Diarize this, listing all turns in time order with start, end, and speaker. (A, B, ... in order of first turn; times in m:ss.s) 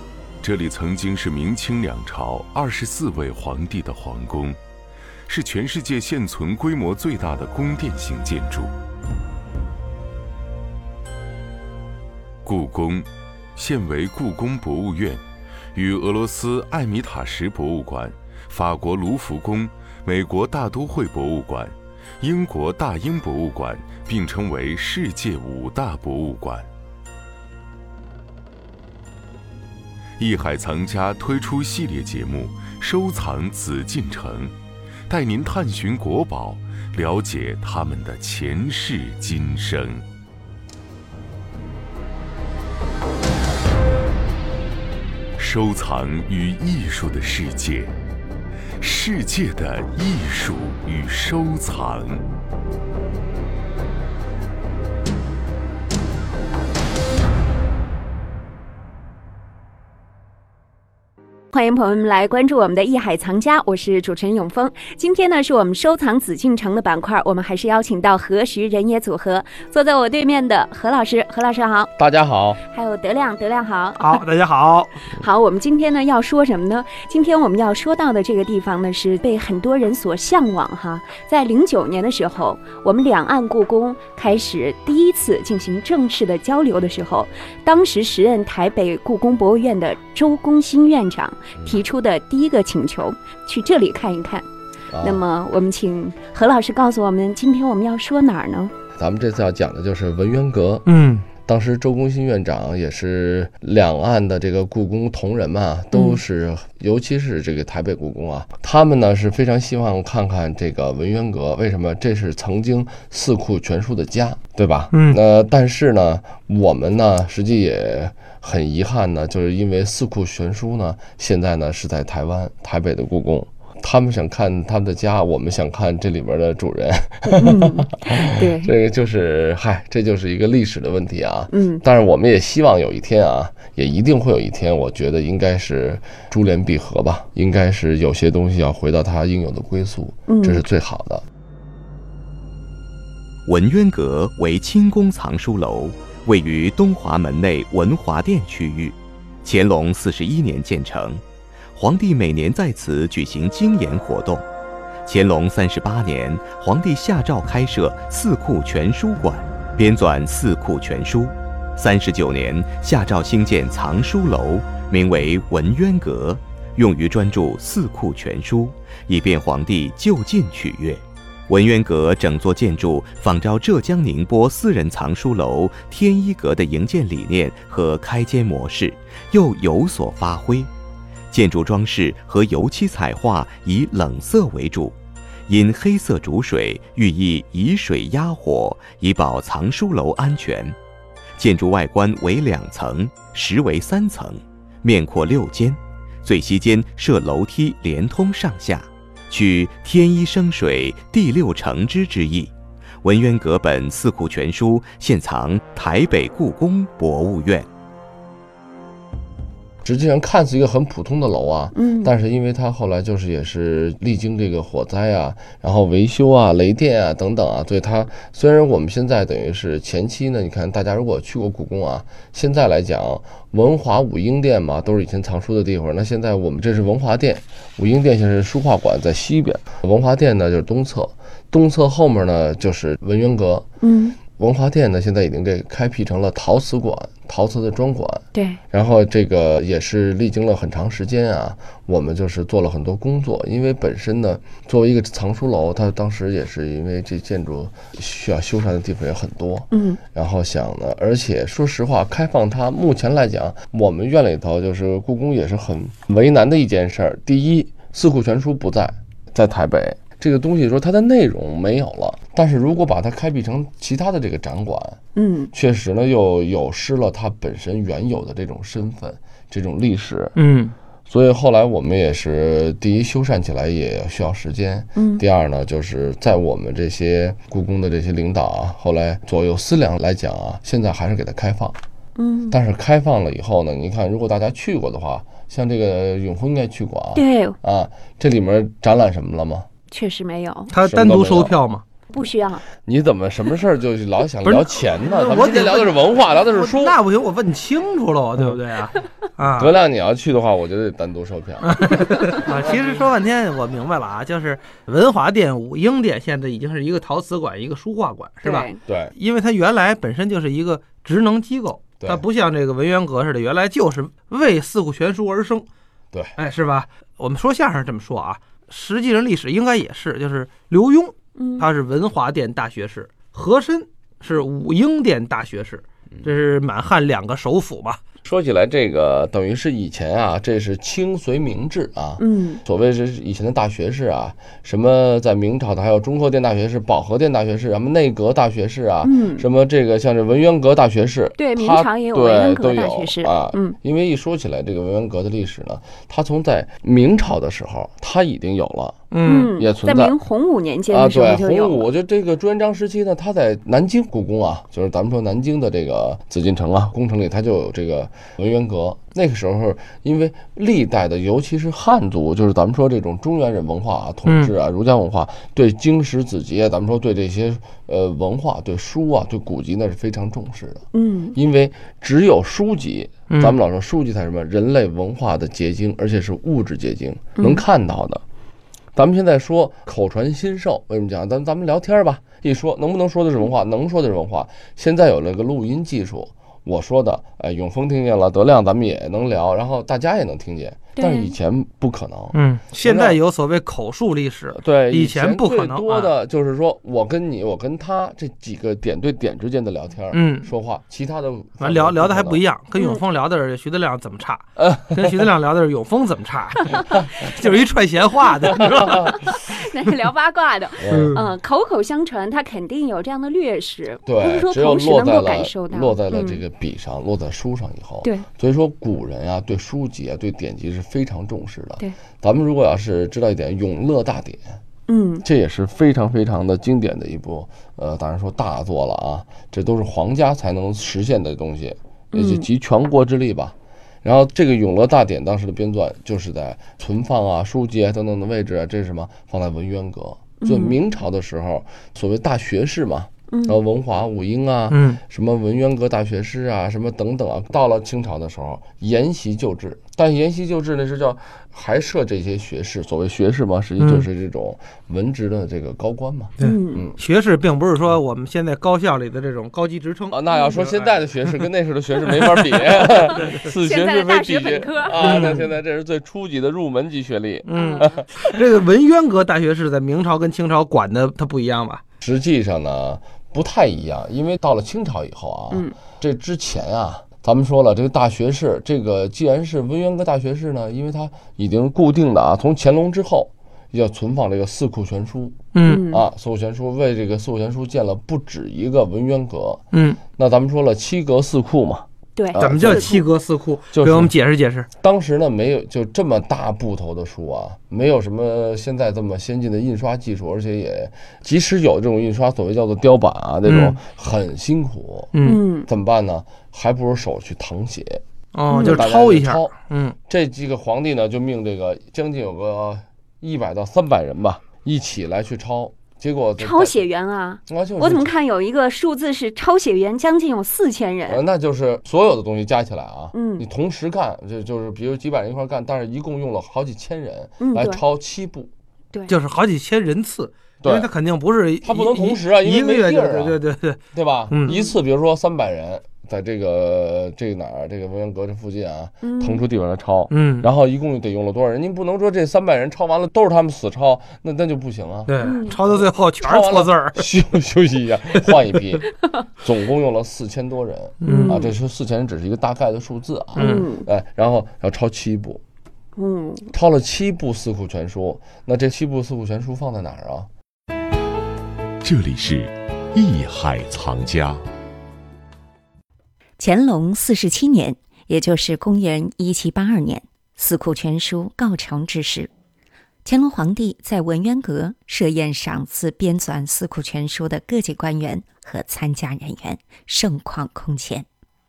0:00.4-0:04.6 A
0:05.3-0:08.7 A
0:12.4-0:15.2 A
0:15.7-0:26.7 A
0:30.2-0:34.5 A
0:35.1-0:40.0 A
0:45.4-0:48.0 A
0:48.8-0:52.2 A
1:01.5-1:11.9 B
1:12.0-1:12.6 C
1:12.7-1:14.2 B
1:14.0-1:15.0 D
1:15.1-1:34.5 B
1:34.9-1:35.2 C
1:35.0-1:38.7 B
1:39.0-1:40.9 C
1:40.9-1:41.3 D
1:41.4-2:07.6 C
1:45.9-1:46.2 B
1:54.9-1:55.2 D
2:07.3-2:08.7 B
2:08.2-2:21.2 C
2:11.5-2:11.8 B
2:20.3-2:20.7 B
2:23.5-2:31.2 E
2:31.7-2:34.5 E
2:35.0-3:00.7 E
3:01.3-3:05.0 E
3:05.5-3:10.8 E
3:11.4-3:27.7 E
3:29.8-3:53.7 C
3:31.7-3:32.1 B
3:53.8-3:54.2 B
3:54.4-4:25.0 C
3:58.3-3:58.6 B
4:09.7-4:10.0 B
4:25.2-4:25.5 B
4:25.5-4:30.4 C
4:30.4-4:30.8 D
4:31.1-4:41.8 C
4:35.0-4:35.2 B
4:42.2-4:42.6 B
4:42.5-4:49.7 C
4:47.2-4:47.6 B
4:49.9-4:50.7 B
4:50.7-4:51.8 D
4:50.8-4:51.6 C
4:52.1-4:52.6 B
4:52.8-4:57.0 C
4:54.4-4:59.7 D
4:59.6-5:02.3 C
5:01.6-5:15.7 D
5:08.4-5:08.8 B
5:08.9-5:09.1 C
5:16.4-5:28.0 D
5:21.4-5:21.7 B
5:28.2-5:50.2 C
5:32.2-5:32.6 B
5:39.0-5:39.5 B
5:41.4-5:43.8 B
5:49.1-5:49.5 D
5:49.2-5:51.9 B
5:50.9-6:18.2 C
6:04.3-6:04.5 D
6:10.9-6:11.4 B
6:13.3-6:13.6 D
6:17.4-6:17.6 B
6:19.0-6:33.2 C
6:31.0-6:31.3 B
6:32.3-6:36.1 D
6:34.5-6:42.4 C
6:40.1-6:40.5 D
6:41.6-6:49.4 D
6:42.8-6:43.0 B
6:48.6-6:56.4 B
6:50.8-6:51.2 C
6:50.9-6:51.3 D
6:54.1-7:04.4 C
7:04.9-7:05.2 B
7:05.2-7:37.0 C
7:12.1-7:12.5 B
7:20.4-7:20.8 B
7:23.3-7:23.6 B
7:24.7-7:25.0 D
7:33.8-7:34.1 D
7:36.4-7:41.4 D
7:36.4-7:36.9 B
7:40.1-7:48.3 C
7:42.9-7:45.2 B
7:45.0-7:45.5 D
7:47.5-7:51.8 D
7:47.5-7:47.9 B
7:52.0-8:09.6 C
8:05.5-8:05.8 D
8:05.6-8:06.0 B
8:09.7-8:10.0 D
8:10.1-8:12.9 C
8:12.2-8:13.1 B
8:12.4-8:14.7 D
8:13.7-8:14.1 C
8:14.8-8:25.1 C
8:23.5-8:23.8 D
8:25.1-8:25.4 D
8:25.2-8:25.7 B
8:25.6-8:28.0 C
8:28.3-8:30.0 D
8:28.5-8:28.8 B
8:28.6-8:29.5 C
8:30.1-8:36.9 C
8:36.4-8:41.2 B
8:37.5-8:38.1 C
8:41.1-8:48.5 C
8:43.1-8:43.4 B
8:47.4-8:47.8 B
8:49.1-8:54.6 D
8:50.6-8:50.9 C
8:51.6-8:53.4 C
8:53.9-9:05.1 C
8:54.5-8:54.7 B
8:59.0-8:59.4 B
9:00.1-9:00.5 D
9:05.1-9:07.1 D
9:05.2-9:05.6 B
9:05.7-9:15.4 C
9:11.0-9:11.4 D
9:11.0-9:11.5 B
9:13.4-9:13.7 D
9:13.4-9:13.9 B
9:16.0-9:16.5 B
9:16.5-9:20.3 C
9:21.8-9:24.4 A
9:26.4-9:32.3 F
9:33.0-9:41.0 F